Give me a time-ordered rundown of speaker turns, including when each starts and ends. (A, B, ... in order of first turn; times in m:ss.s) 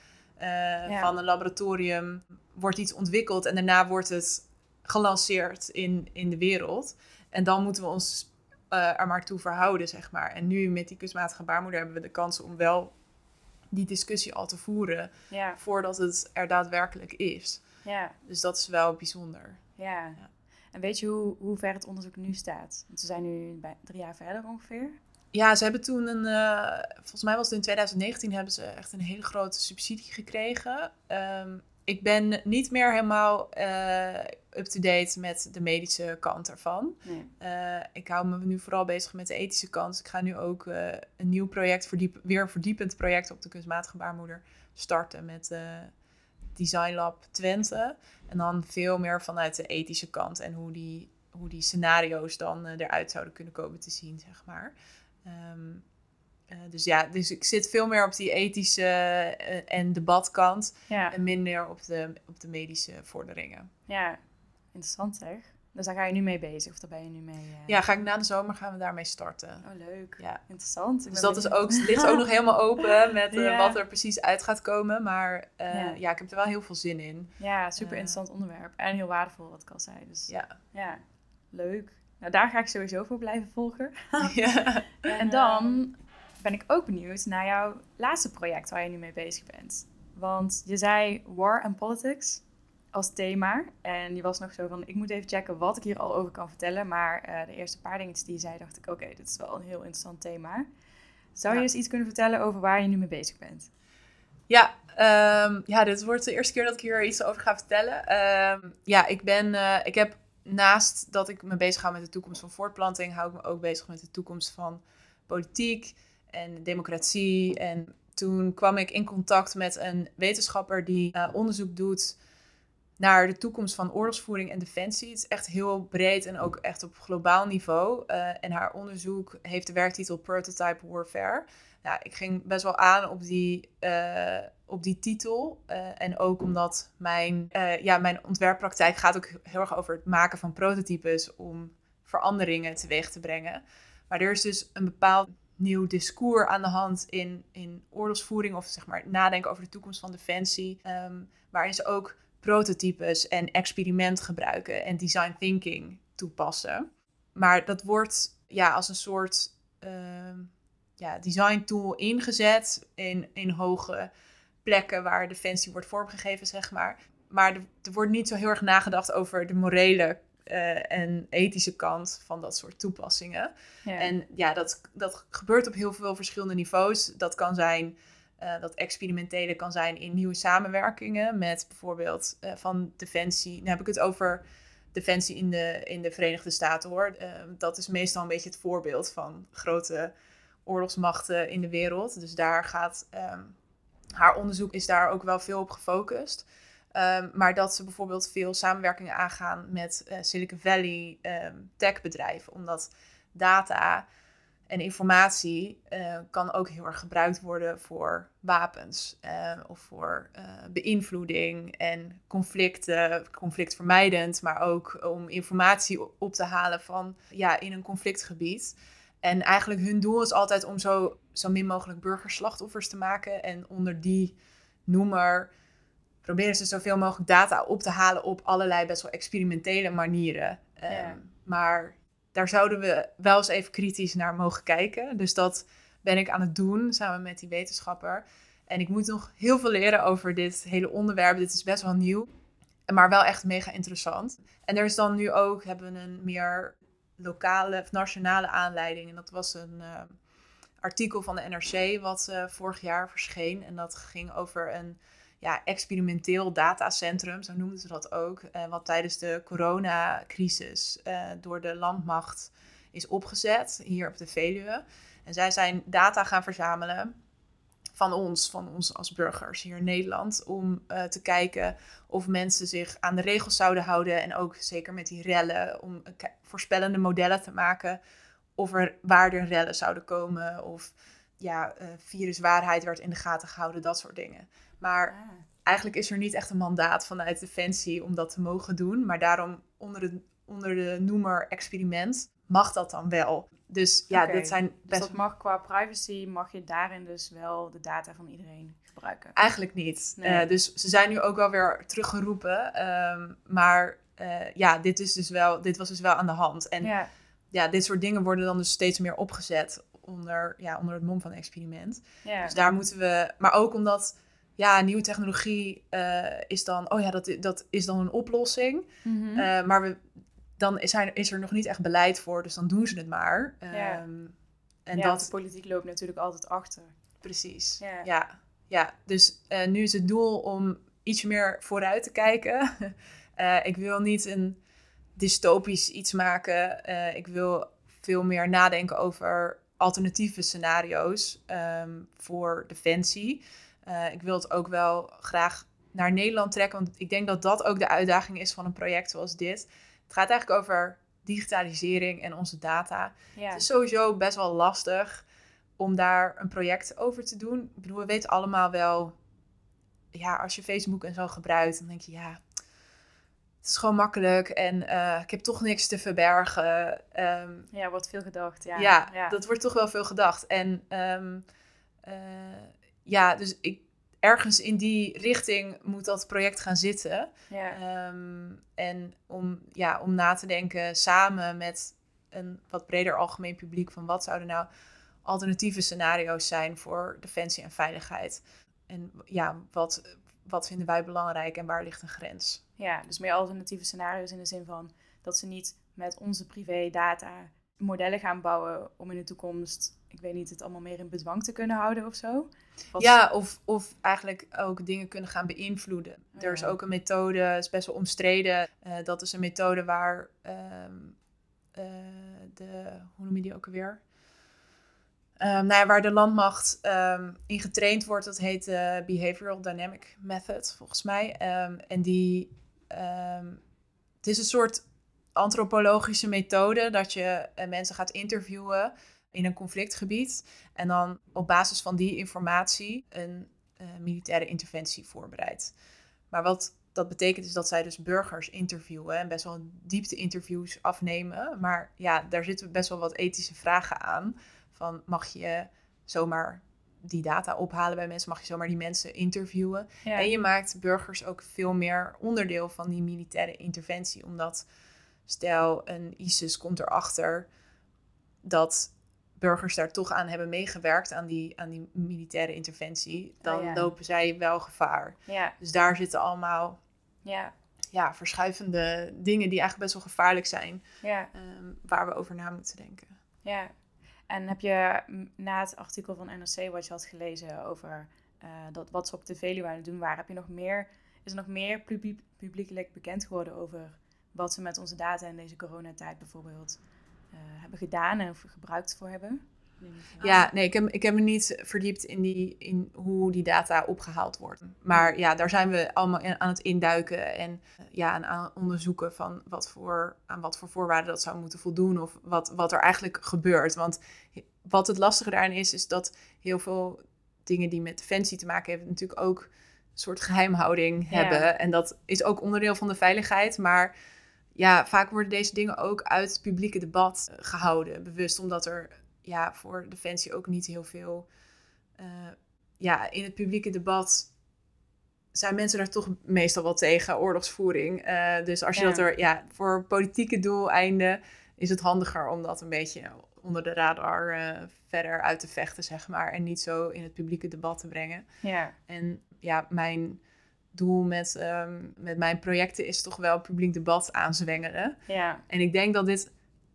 0:00.4-0:12.9 A
0:13.7-0:17.6 A
0:15.3-0:15.6 B
0:17.8-0:18.2 B
0:18.2-0:19.6 A
0:19.8-0:20.2 B
0:20.7-0:25.0 B
0:25.3-0:45.9 A
0:37.0-0:37.3 B
0:46.6-0:54.7 A
0:55.2-0:55.8 A
0:56.5-1:03.7 A
1:00.9-1:01.2 B
1:03.9-1:04.2 B
1:04.7-1:07.8 B
1:07.7-1:09.7 A
1:09.6-1:12.2 B
1:11.1-1:18.2 A
1:13.3-1:13.8 B
1:15.7-1:16.0 B
1:17.4-1:24.4 B
1:24.2-1:25.8 A
1:25.0-1:40.7 B
1:41.4-1:43.7 B
1:44.5-2:02.2 A
2:03.0-2:44.1 A
2:44.6-3:10.1 A
3:10.6-3:13.6 A
3:14.2-3:24.0 A
3:24.7-3:44.4 A
3:44.9-3:45.5 A
3:46.2-4:02.3 A
3:50.9-3:51.2 B
4:02.9-4:10.1 A
4:10.8-4:27.1 A
4:28.0-4:38.0 A
4:38.6-4:55.2 A
4:45.1-4:45.4 B
4:54.1-4:59.4 B
4:59.4-5:06.9 A
5:00.2-5:00.5 B
5:06.8-5:07.1 B
5:07.5-5:20.0 A
5:12.2-5:12.7 B
5:19.0-5:19.5 B
5:20.6-5:24.4 A
5:23.7-5:24.0 B
5:24.9-5:25.3 A
5:25.0-5:26.9 B
5:27.2-5:34.6 A
5:27.8-5:28.1 B
5:35.2-5:55.2 A
5:53.4-5:53.6 B
5:55.8-5:59.2 A
6:00.1-6:02.4 A
6:03.6-6:07.7 A
6:07.7-6:09.4 B
6:08.8-6:11.4 A
6:12.0-6:24.7 A
6:17.5-6:17.8 B
6:25.2-6:32.6 A
6:32.8-6:43.2 B
6:43.0-6:51.2 A
6:46.4-6:46.7 B
6:51.8-6:54.0 A
6:55.4-7:03.6 A
7:04.2-7:04.8 A
7:05.4-7:15.7 A
7:16.3-7:34.7 A
7:35.3-7:37.5 A
7:38.4-7:46.8 A
7:43.4-7:43.9 B
7:45.3-7:45.6 B
7:47.2-7:47.5 B
7:47.9-7:53.1 A
7:51.0-7:51.3 B
7:53.4-7:53.7 B
7:54.3-8:06.8 B
8:07.3-8:10.5 B
8:10.2-8:33.9 A
8:31.1-8:31.5 B
8:34.6-8:41.3 A
8:42.0-8:44.3 A
8:45.3-8:58.2 A
8:48.8-8:49.0 B
8:58.4-8:58.8 B
8:58.9-9:00.2 A
9:00.7-9:05.0 A
9:05.1-9:05.4 B
9:05.5-9:06.3 A